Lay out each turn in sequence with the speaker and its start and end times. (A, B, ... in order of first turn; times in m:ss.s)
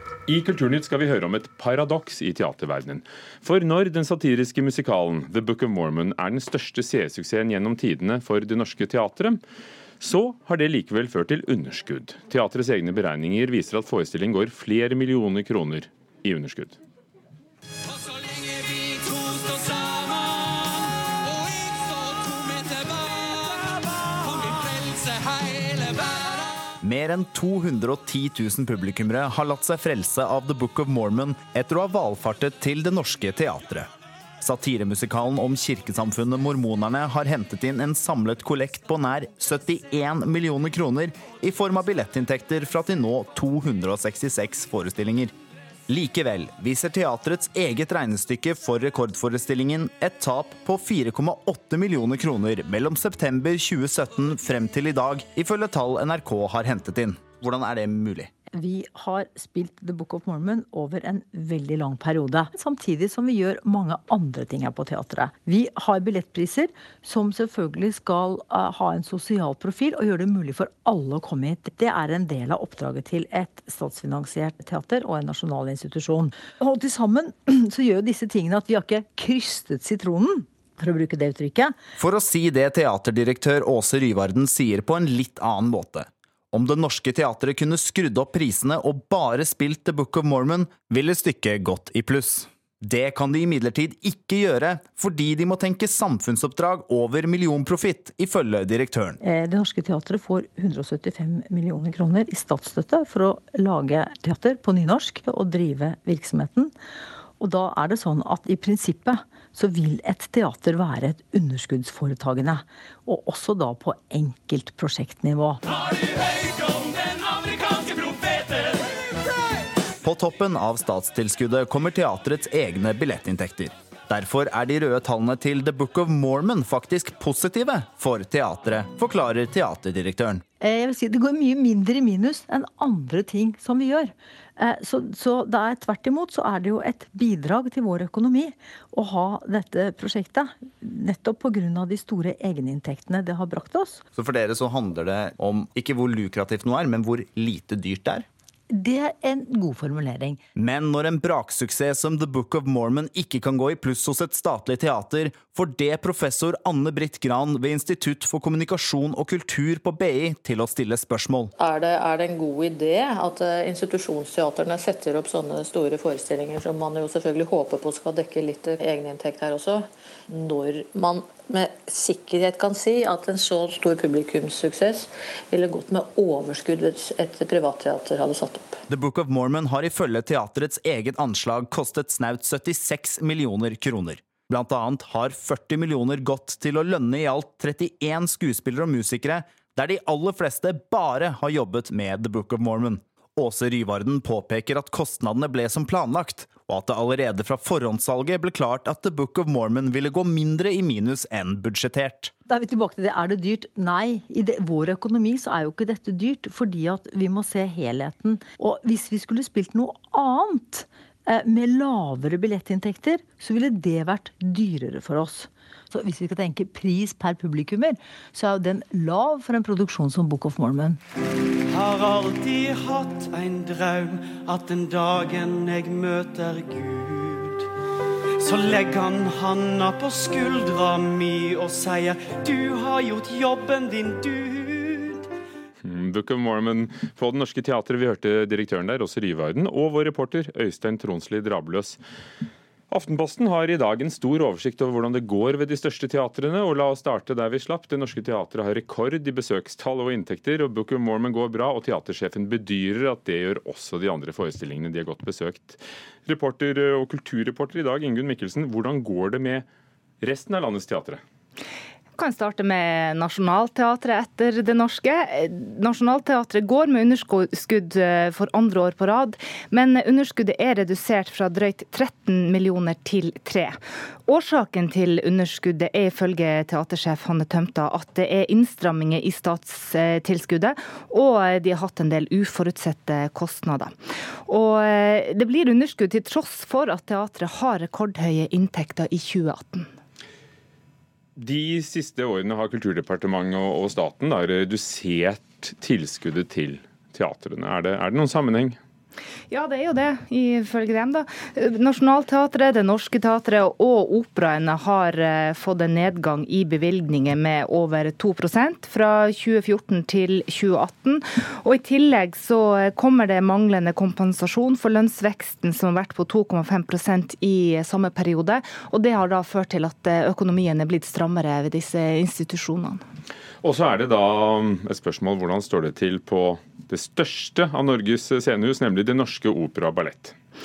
0:00.3-0:09.4 A
0:10.0-0:16.8 A
0:26.8-0:33.9 B
0:34.4-0:45.3 B
0:45.9-0:58.3 B
0:58.5-1:21.8 C
1:22.0-1:39.2 B
1:39.2-1:46.7 C
1:47.4-1:55.6 C
2:00.0-2:10.4 B
2:10.6-2:24.0 C
2:24.2-2:28.3 B
2:28.7-2:30.4 C
2:30.6-2:41.5 B
2:41.6-2:58.8 D
2:58.9-3:22.3 B
3:22.5-3:41.0 C
3:41.7-3:47.6 E
3:48.4-3:55.2 E
3:55.8-4:02.0 A
4:02.9-4:19.6 A
4:20.2-4:21.2 A
4:22.2-4:43.9 F
4:44.4-4:49.9 F
4:51.4-4:58.8 A
4:59.5-5:23.0 F
5:23.6-5:30.3 A